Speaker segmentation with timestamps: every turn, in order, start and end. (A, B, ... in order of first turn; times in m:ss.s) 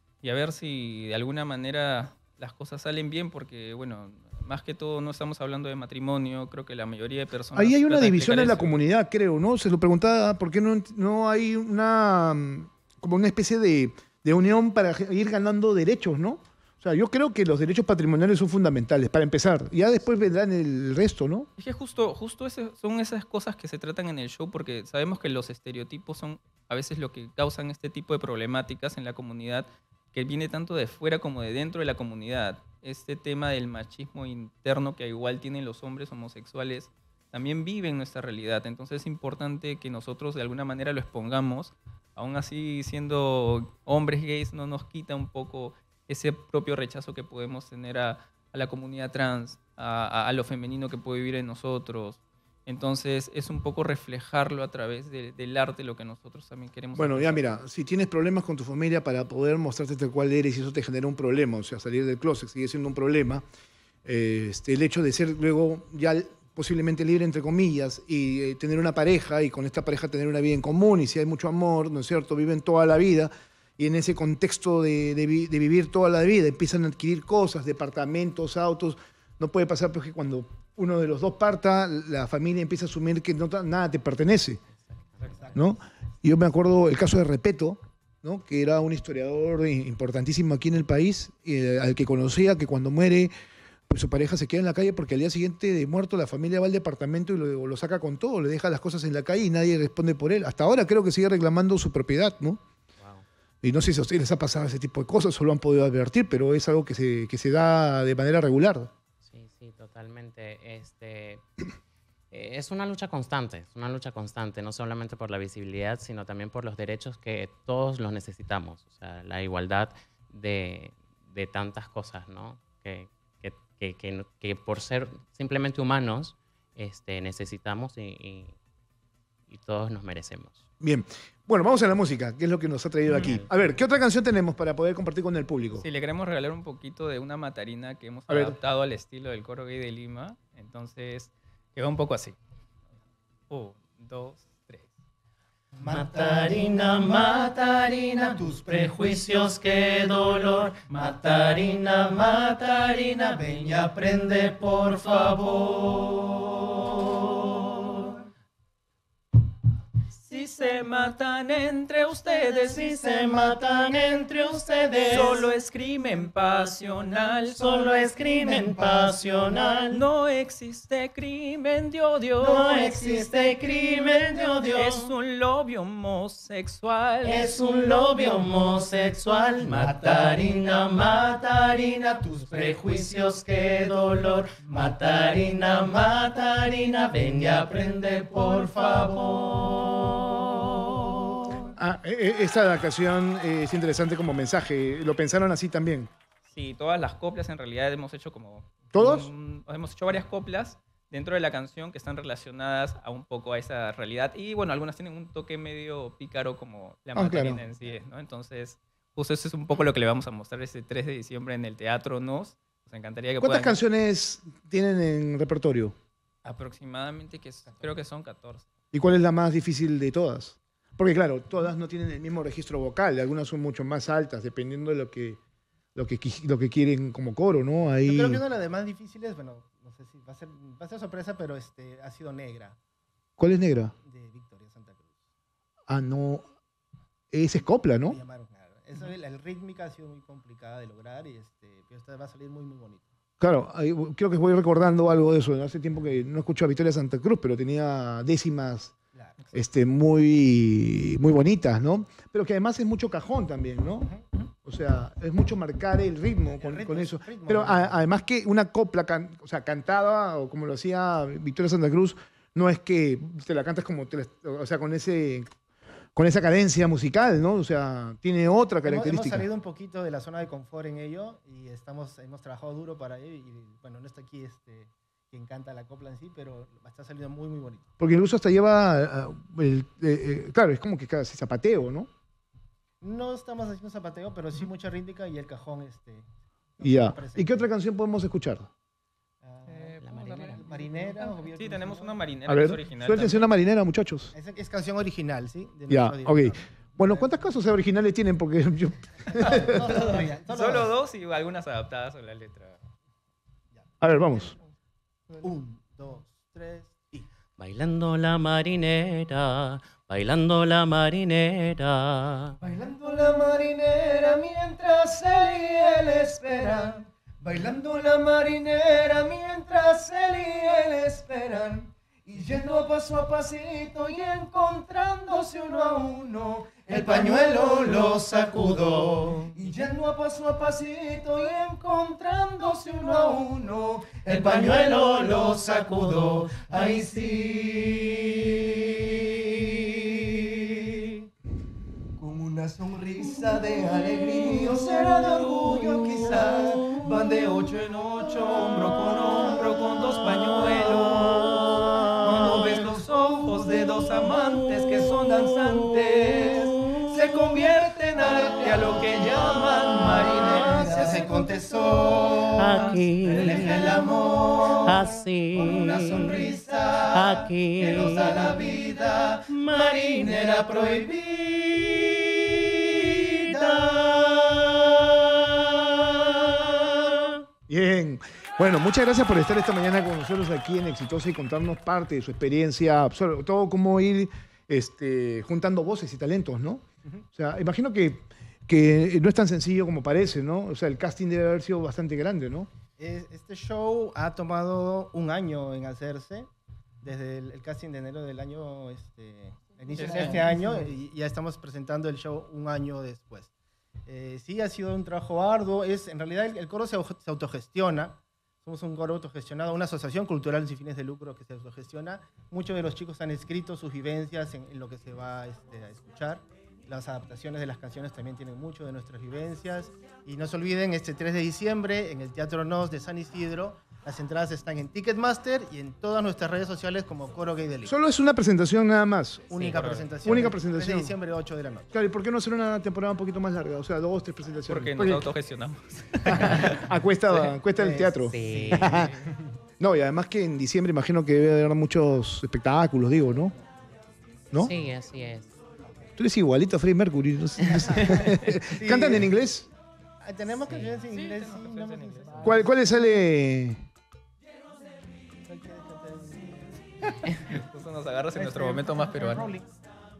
0:00.2-0:08.7 A
0:07.5-0:21.5 B
0:21.6-0:57.6 A
0:56.9-1:03.4 B
1:04.0-1:24.6 B
1:24.8-1:25.6 C
1:25.5-1:33.3 B
1:33.9-1:42.6 B
1:43.0-1:43.2 C
1:43.6-1:48.9 B
1:49.2-1:51.4 C
1:52.3-2:08.5 C
2:09.5-2:10.6 C
2:10.8-2:15.8 B
2:13.1-2:13.5 C
2:15.8-2:22.4 A
2:18.3-2:18.6 B
2:23.5-2:24.9 A
2:25.8-2:38.2 D
2:26.0-2:26.8 E
2:40.1-2:43.0 A
2:42.5-2:45.5 D
2:45.0-2:47.8 A
2:47.5-2:50.0 D
2:49.9-2:52.9 A
2:52.4-2:55.1 D
2:54.7-2:57.5 A
2:57.2-3:11.7 D
2:59.6-3:00.2 A
3:11.8-3:16.1 B
3:16.4-3:33.8 A
3:18.9-3:19.3 B
3:27.1-3:27.6 B
3:33.4-3:35.9 B
3:36.4-3:38.6 A
3:38.9-3:45.4 B
3:45.9-3:48.4 B
3:48.0-3:52.8 E
3:53.4-3:53.9 B
3:54.0-3:55.0 E
3:55.9-3:56.4 B
3:57.3-3:58.2 B
3:58.0-4:03.0 E
4:03.4-4:08.9 B
4:09.1-4:09.4 E
4:09.5-4:25.5 B
4:16.5-4:18.0 E
4:26.2-4:29.5 B
4:28.8-4:37.8 E
4:38.0-4:42.1 B
4:43.0-4:46.3 E
4:46.8-4:47.6 E
4:46.8-4:48.7 B
4:49.4-4:52.2 E
4:50.0-4:50.7 C
4:51.5-4:53.4 A
4:52.4-4:54.3 B
4:54.3-4:57.5 E
4:55.9-5:00.0 B
4:59.3-5:00.9 E
4:59.9-5:02.9 A
5:03.8-5:04.5 E
5:04.0-5:04.5 B
5:05.4-5:07.3 E
5:07.6-5:12.6 C
5:12.6-5:37.8 F
5:26.9-5:29.5 D
5:34.2-5:38.6 D
5:38.6-5:41.0 F
5:42.2-5:54.4 F
5:47.3-6:01.2 A
5:54.9-6:02.1 F
6:00.7-6:04.7 E
6:02.0-6:03.4 A
6:02.6-6:04.0 C
6:03.4-6:06.3 D
6:03.4-6:04.2 F
6:04.8-6:06.5 C
6:05.6-6:07.0 E
6:05.8-6:06.8 F
6:07.0-6:17.4 D
6:07.1-6:08.4 C
6:07.8-6:09.3 E
6:08.3-6:08.6 F
6:09.5-6:09.9 C
6:17.7-6:26.8 B
6:27.3-6:32.7 B
6:33.0-6:36.5 E
6:37.0-6:43.5 E
6:39.9-6:40.5 A
6:40.1-6:40.6 F
6:44.0-7:07.9 E
7:07.8-7:09.6 B
7:09.5-7:11.9 E
7:09.6-7:10.2 A
7:10.2-7:11.1 B
7:11.9-7:15.3 B
7:14.7-7:17.5 A
7:16.2-7:19.1 B
7:17.7-7:19.5 E
7:18.3-7:19.1 C
7:19.8-7:23.5 B
7:24.5-7:25.5 C
7:26.2-7:29.7 B
7:28.7-7:29.3 E
7:30.2-7:32.8 E
7:30.7-7:31.0 C
7:31.1-7:32.6 A
7:32.4-7:33.8 B
7:35.4-7:37.5 E
7:37.4-7:39.5 A
7:38.3-7:39.7 E